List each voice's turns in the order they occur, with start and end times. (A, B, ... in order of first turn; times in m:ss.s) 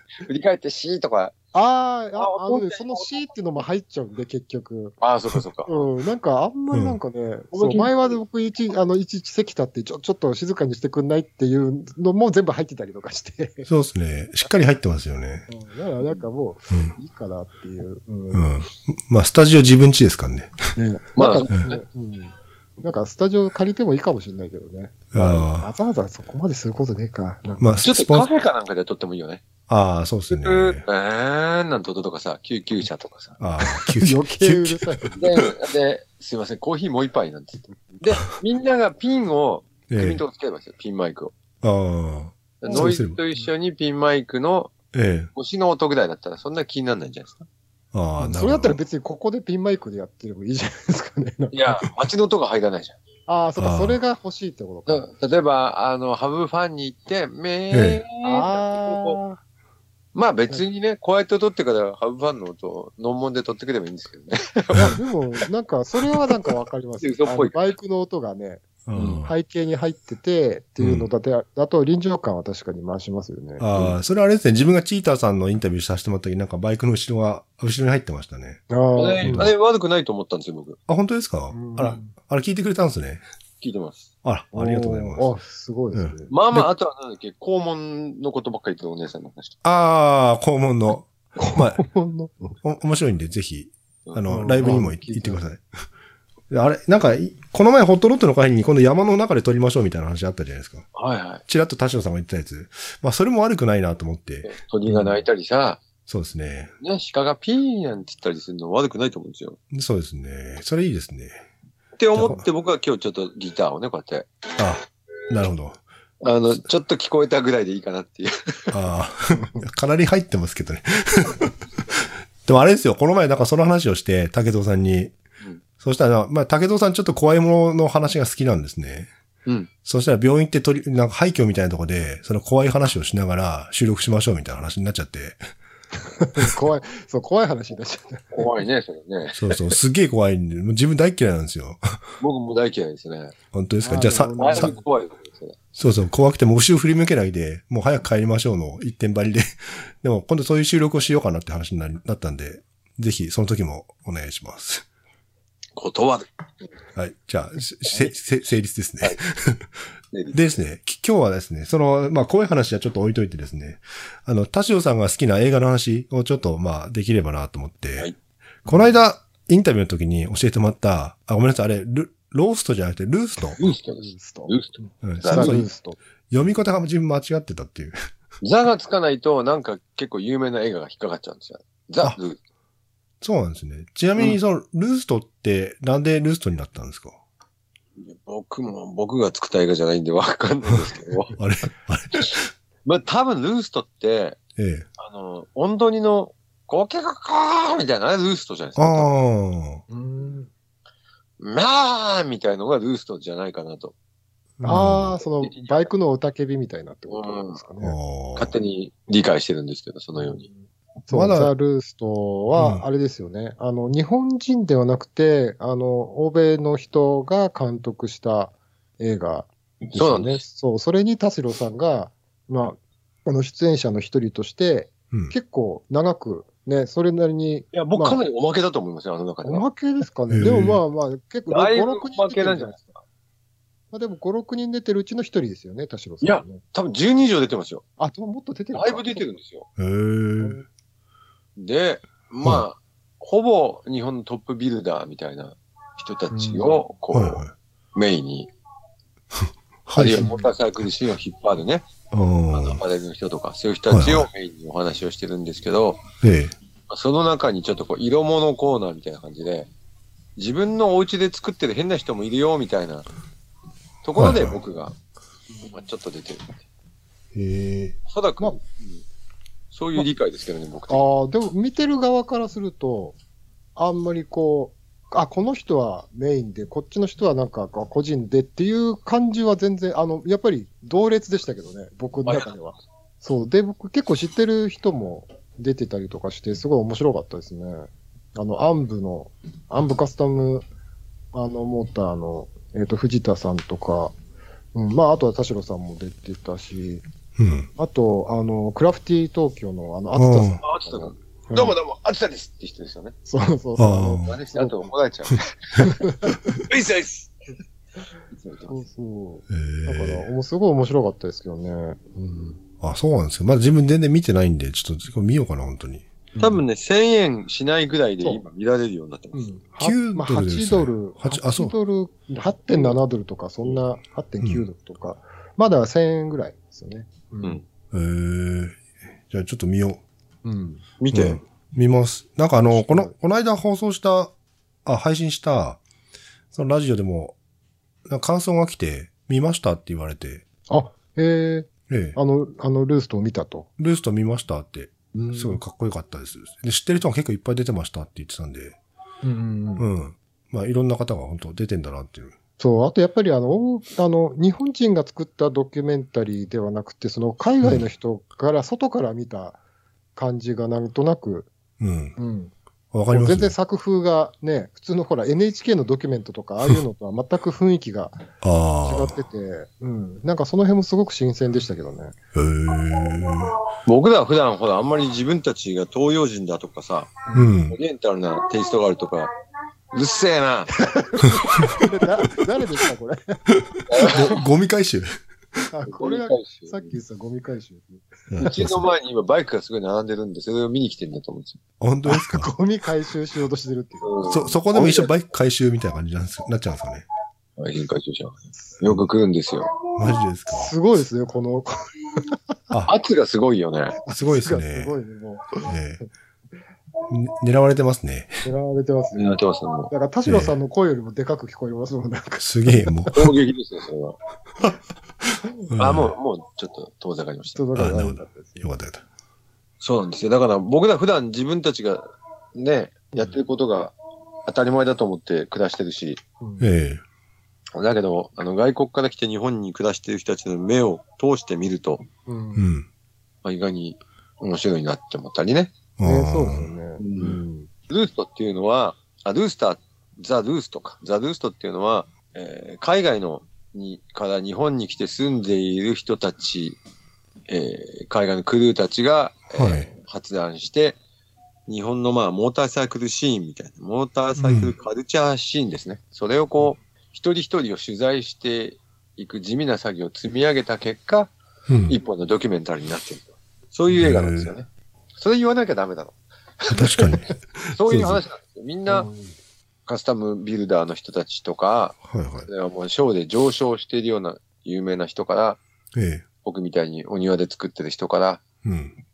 0:00.2-0:01.3 A
0:01.5-0:05.0 B
0:02.2-0:03.2 A
0:05.0-0:05.7 A
0:05.6-0:13.7 B
0:06.7-0:07.0 C
0:07.5-0:08.2 A
0:13.6-0:15.5 C
0:15.5-0:18.5 B
0:16.7-0:17.0 C
0:18.3-0:20.7 C
0:20.8-0:27.7 B
0:21.2-0:21.8 A
0:25.1-0:25.7 C
0:27.6-0:28.3 C
0:27.8-0:29.4 A
0:29.7-0:30.8 C
0:30.3-0:33.4 A
0:33.4-0:35.1 C
0:33.6-0:35.2 B
0:35.2-0:41.3 A
0:39.9-0:40.2 C
0:41.6-0:43.2 C
0:42.6-0:44.7 A
0:42.7-0:43.0 B
0:44.9-0:45.3 C
0:45.3-0:47.4 A
0:47.9-0:48.8 C
0:48.2-0:51.8 B
0:51.5-0:53.0 A
0:53.3-0:55.1 B
0:53.6-0:54.0 C
0:54.9-0:59.2 A
0:57.7-0:58.0 C
0:58.2-0:59.4 B
1:00.1-1:05.0 A
1:04.7-1:08.6 B
1:07.0-1:07.6 A
1:08.8-1:09.3 C
1:08.9-1:09.2 A
1:09.2-1:13.7 B
1:10.8-1:11.1 C
1:13.6-1:18.6 C
1:18.7-1:19.5 B
1:18.9-1:20.8 A
1:19.2-1:19.5 C
1:20.9-1:23.2 C
1:21.5-1:22.1 B
1:23.6-1:24.1 A
1:24.2-1:25.3 C
1:24.5-1:26.3 B
1:25.9-1:26.7 C
1:26.3-1:29.6 A
1:29.6-1:31.8 C
1:31.4-1:32.6 B
1:32.6-1:35.6 C
1:34.1-1:35.3 A
1:34.3-1:35.0 B
1:36.5-1:40.9 C
1:40.9-1:41.4 A
1:41.5-1:45.2 C
1:44.4-1:45.8 A
1:46.1-1:46.7 C
1:46.8-1:49.6 A
1:49.7-1:51.4 C
1:52.0-1:54.3 A
1:52.1-1:52.4 C
1:54.6-1:55.8 C
1:56.2-1:58.7 A
1:58.7-2:05.1 C
1:59.3-1:59.6 B
2:05.8-2:09.1 C
2:09.8-2:15.4 C
2:16.1-2:18.5 B
2:18.3-2:19.8 A
2:19.3-2:22.0 C
2:22.2-2:23.3 A
2:23.5-2:24.7 C
2:23.8-2:24.8 B
2:24.4-2:25.6 A
2:25.8-2:34.8 C
2:35.8-2:36.3 A
2:37.0-2:39.7 C
2:40.1-2:40.4 A
2:40.3-2:48.1 C
2:48.6-2:53.6 C
2:48.7-2:48.9 B
2:53.6-2:55.6 A
2:54.0-2:56.0 B
2:55.0-2:55.7 C
2:56.3-2:57.9 C
2:58.4-3:02.4 A
3:03.2-3:07.2 C
3:08.0-3:11.4 A
3:11.4-3:12.5 C
3:12.8-3:14.4 A
3:14.6-3:14.8 C
3:15.0-3:19.1 A
3:18.8-3:19.8 C
3:19.9-3:20.5 B
3:21.4-3:23.9 A
3:24.6-3:25.2 C
3:24.6-3:28.0 B
3:25.4-3:25.9 A
3:27.1-3:27.6 A
3:27.8-3:28.5 C
3:28.4-3:30.5 A
3:30.2-3:48.2 B
3:31.1-3:31.5 C
3:32.6-3:32.8 C
3:39.9-3:40.4 A
3:47.7-3:49.6 A
3:49.4-3:53.0 B
3:50.3-3:50.8 C
3:51.5-3:52.8 A
3:53.9-3:56.6 B
3:56.2-3:57.8 A
3:58.0-3:59.2 B
3:58.7-3:59.7 A
3:59.8-4:00.6 C
4:00.4-4:00.6 B
4:01.6-4:07.4 A
4:06.3-4:06.8 B
4:07.1-4:07.5 C
4:07.9-4:08.5 A
4:09.4-4:10.2 C
4:10.0-4:11.8 A
4:10.1-4:10.5 B
4:12.1-4:12.8 C
4:12.5-4:16.0 A
4:13.9-4:14.3 C
4:16.2-4:16.5 C
4:16.9-4:19.7 A
4:20.4-4:23.1 A
4:24.0-4:24.9 A
4:24.2-4:24.6 C
4:25.6-4:26.6 A
4:27.3-4:28.0 C
4:28.1-4:29.0 A
4:29.7-4:31.1 A
4:30.9-4:33.2 B
4:33.8-4:50.6 B
4:42.2-4:42.5 A
4:51.3-4:54.1 B
4:54.7-4:57.0 B
4:57.4-4:57.7 C
4:57.8-5:01.8 B
5:00.1-5:00.6 C
5:00.6-5:03.1 A
5:03.2-5:04.9 B
5:03.8-5:04.4 C
5:04.2-5:05.9 A
5:05.8-5:06.5 B
5:06.6-5:07.3 A
5:08.3-5:08.8 A
5:08.7-5:12.6 B
5:09.5-5:10.3 C
5:12.8-5:16.0 C
5:16.3-5:16.6 B
5:16.4-5:19.5 A
5:19.3-5:27.6 B
5:19.8-5:21.7 C
5:27.9-5:30.0 C
5:30.4-5:30.8 B
5:31.0-5:31.4 A
5:31.1-5:34.3 C
5:32.6-5:33.1 B
5:34.8-5:35.8 C
5:36.5-5:37.4 C
5:38.1-5:40.4 C
5:40.7-5:43.7 B
5:41.9-5:42.2 C
5:43.8-5:48.8 C
5:45.1-5:45.6 B
5:49.2-5:49.9 B
5:49.8-5:52.3 C
5:52.6-5:59.6 B
6:00.2-6:01.5 B
6:01.8-6:02.2 C
6:02.2-6:02.5 B
6:02.9-6:03.5 C
6:03.1-6:08.3 B
6:08.4-6:09.2 C
6:08.8-6:12.1 B
6:12.3-6:13.6 C
6:13.8-6:19.3 A
6:17.3-6:17.5 B
6:17.3-6:17.8 C
6:19.9-6:20.7 A
6:20.7-6:23.4 B
6:23.5-6:25.1 C
6:23.9-6:24.4 A
6:25.7-6:28.6 B
6:25.9-6:26.9 A
6:28.3-6:28.9 C
6:28.4-6:31.6 A
6:31.8-6:32.5 C
6:32.0-6:34.2 B
6:34.0-6:35.1 A
6:34.2-6:37.0 C
6:37.6-6:39.7 A
6:40.0-6:40.7 C
6:40.5-6:42.4 B
6:42.9-6:44.0 A
6:44.0-6:45.7 B
6:44.1-6:44.9 C
6:45.6-6:46.0 C
6:47.1-6:48.4 C
6:48.4-6:49.4 B
6:49.1-6:49.9 A
6:49.9-6:53.1 B
6:50.2-6:50.5 C
6:52.4-6:53.3 C
6:53.1-6:54.2 A
6:55.7-6:56.1 C
6:55.8-6:57.6 A
6:57.5-6:58.7 B
6:57.7-6:59.0 C
6:59.8-7:03.9 A
7:04.4-7:06.2 A
7:06.4-7:06.7 B
7:06.6-7:07.0 C
7:07.7-7:12.0 A
7:12.2-7:12.7 B
7:12.5-7:12.9 C
7:13.4-7:15.7 A
7:16.0-7:16.7 C
7:16.0-7:17.7 B
7:17.0-7:26.8 A
7:27.5-7:31.0 A
7:29.5-7:29.9 C
7:31.7-7:41.3 A
7:34.4-7:34.7 C
7:41.7-7:42.0 C
7:41.9-7:47.2 A
7:43.9-7:44.5 C
7:46.7-7:48.2 C
7:47.7-7:49.1 A
7:48.9-7:49.3 B
7:49.9-7:55.6 A
7:52.0-7:52.5 C
7:55.9-7:56.2 C
7:56.4-7:58.4 A
7:58.6-7:58.9 C